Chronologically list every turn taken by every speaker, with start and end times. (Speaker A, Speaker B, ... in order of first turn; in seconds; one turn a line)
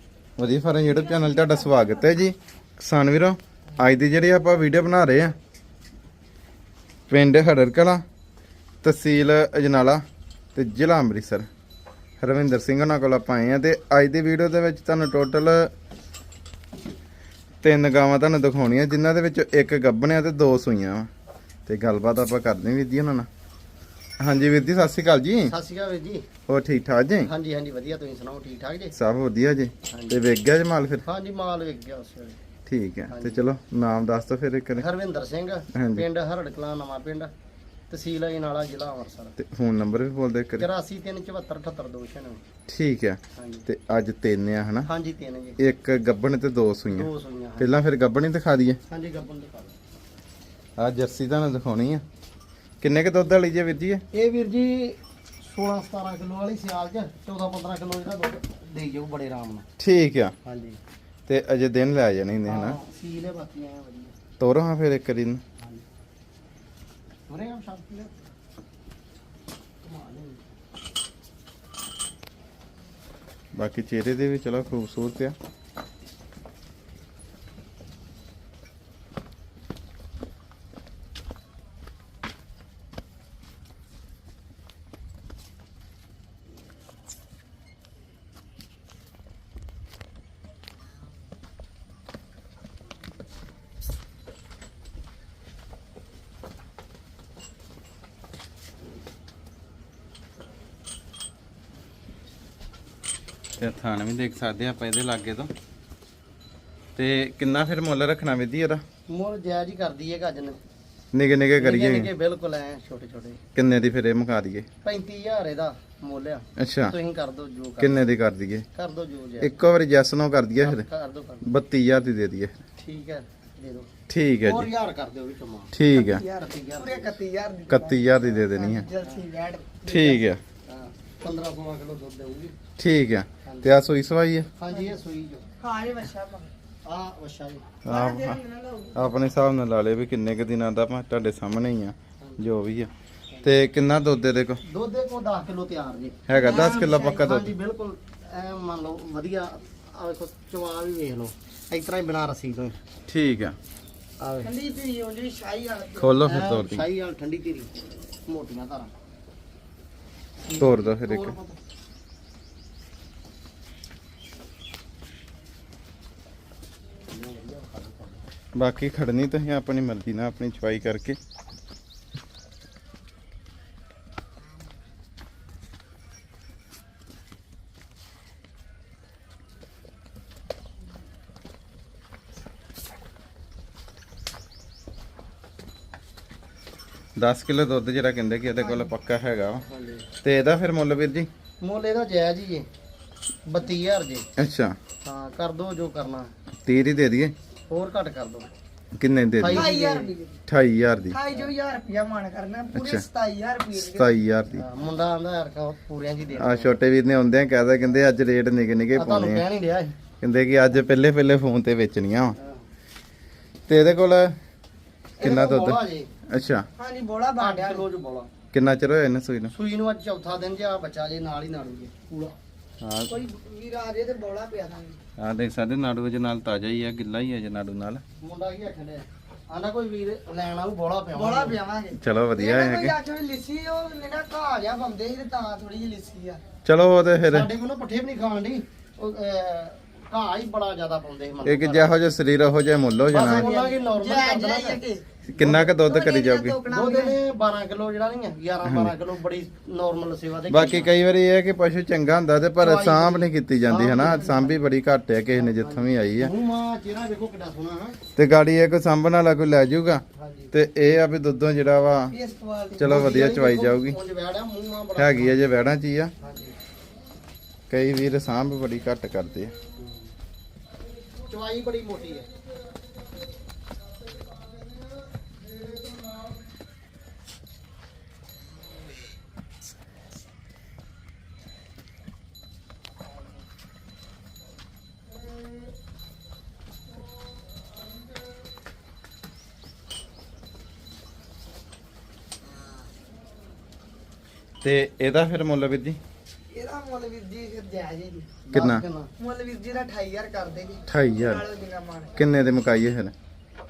Speaker A: 0.4-5.3
Speaker B: 0.9-2.0
Speaker A: 7.1-8.0
Speaker A: 8.8-10.0
Speaker A: 10.6-11.5
Speaker A: 12.2-15.7
Speaker A: 17.6-21.1
Speaker A: 21.7-23.3
Speaker A: 24.2-25.5
Speaker A: 26.5-27.3
Speaker C: 27.3-28.8
Speaker A: 28.9-31.1
Speaker C: 31.1-32.0
Speaker A: 32.7-34.9
Speaker C: 35.1-37.2
Speaker A: 35.7-36.1
Speaker C: 38.1-39.3
Speaker A: 39.4-40.7
Speaker C: 40.6-42.4
Speaker A: 42.7-44.9
Speaker C: 44.9-45.4
Speaker A: 45.6-48.8
Speaker C: 46.9-47.6
Speaker C: 48.9-49.7
Speaker A: 50.8-52.0
Speaker A: 52.8-54.0
Speaker C: 54.1-54.9
Speaker C: 55.6-59.6
Speaker A: 59.8-60.3
Speaker C: 60.5-60.8
Speaker A: 61.3-62.8
Speaker C: 62.5-64.1
Speaker A: 64.4-65.4
Speaker C: 67.3-68.1
Speaker C: 69.8-70.4
Speaker A: 73.5-75.3
Speaker A: 103.6-105.5
Speaker A: 107.0-108.8
Speaker C: 109.1-110.6
Speaker A: 111.1-112.1
Speaker C: 111.6-112.1
Speaker C: 112.6-113.3
Speaker A: 113.5-114.7
Speaker C: 115.2-116.4
Speaker A: 116.6-117.0
Speaker C: 117.2-117.7
Speaker A: 117.8-118.7
Speaker C: 118.9-119.4
Speaker A: 119.4-120.8
Speaker C: 120.6-121.4
Speaker A: 121.4-122.6
Speaker C: 122.8-123.9
Speaker A: 124.1-124.7
Speaker C: 124.5-125.7
Speaker A: 125.7-126.2
Speaker B: 125.9-130.3
Speaker C: 126.5-127.2
Speaker A: 127.7-128.9
Speaker A: 129.8-130.4
Speaker C: 130.7-132.5
Speaker A: 132.8-134.5
Speaker B: 134.7-135.0
Speaker C: 135.2-135.4
Speaker B: 135.6-136.5
Speaker C: 136.9-137.7
Speaker A: 137.8-138.4
Speaker B: 137.9-139.2
Speaker A: 139.0-142.9
Speaker A: 143.4-144.6
Speaker C: 144.7-146.2
Speaker A: 146.3-147.5
Speaker B: 146.3-147.2
Speaker C: 147.2-152.8
Speaker A: 153.1-153.6
Speaker B: 154.4-156.2
Speaker A: 156.0-156.9
Speaker C: 156.2-157.7
Speaker C: 158.3-158.9
Speaker C: 160.5-161.6
Speaker A: 160.6-161.4
Speaker C: 167.1-168.2
Speaker A: 168.6-171.2
Speaker A: 187.2-189.6
Speaker B: 188.6-188.9
Speaker C: 189.7-190.1
Speaker A: 190.2-191.3
Speaker C: 191.6-192.7
Speaker C: 193.9-194.2
Speaker A: 194.4-194.8
Speaker C: 195.1-196.3
Speaker A: 196.7-197.3
Speaker C: 197.7-198.5
Speaker A: 199.0-199.7
Speaker B: 199.5-200.4
Speaker C: 199.5-200.1
Speaker A: 200.5-201.2
Speaker B: 201.1-204.1
Speaker A: 202.7-203.1
Speaker A: 203.8-204.7
Speaker C: 204.6-206.7
Speaker A: 206.4-209.4
Speaker C: 209.0-209.9
Speaker A: 210.2-212.4
Speaker A: 213.7-214.4
Speaker A: 215.2-216.7
Speaker C: 215.2-216.1
Speaker B: 216.8-217.9
Speaker C: 217.7-218.2
Speaker A: 218.5-219.5
Speaker C: 219.6-222.3
Speaker A: 222.8-223.2
Speaker B: 223.1-225.0
Speaker A: 225.2-228.0
Speaker C: 228.2-229.0
Speaker C: 229.7-231.5
Speaker B: 231.1-236.4
Speaker A: 232.0-232.9
Speaker A: 236.7-237.5
Speaker C: 237.3-241.9
Speaker A: 241.4-243.5
Speaker C: 243.1-244.8
Speaker B: 243.2-245.0
Speaker A: 245.3-246.6
Speaker B: 245.7-247.2
Speaker C: 246.7-250.9
Speaker A: 248.6-248.9
Speaker A: 250.5-256.3
Speaker C: 252.6-254.6
Speaker C: 255.3-258.0
Speaker A: 258.1-262.1
Speaker C: 260.2-260.4
Speaker B: 262.1-263.0
Speaker A: 262.8-264.0
Speaker C: 262.9-265.3
Speaker A: 265.0-266.1
Speaker C: 266.2-266.5
Speaker A: 267.7-269.5
Speaker C: 271.3-272.3
Speaker A: 294.6-296.0
Speaker B: 296.5-298.4
Speaker C: 298.5-298.8
Speaker A: 298.5-298.8
Speaker B: 299.2-302.2
Speaker A: 300.9-301.4
Speaker A: 302.1-303.1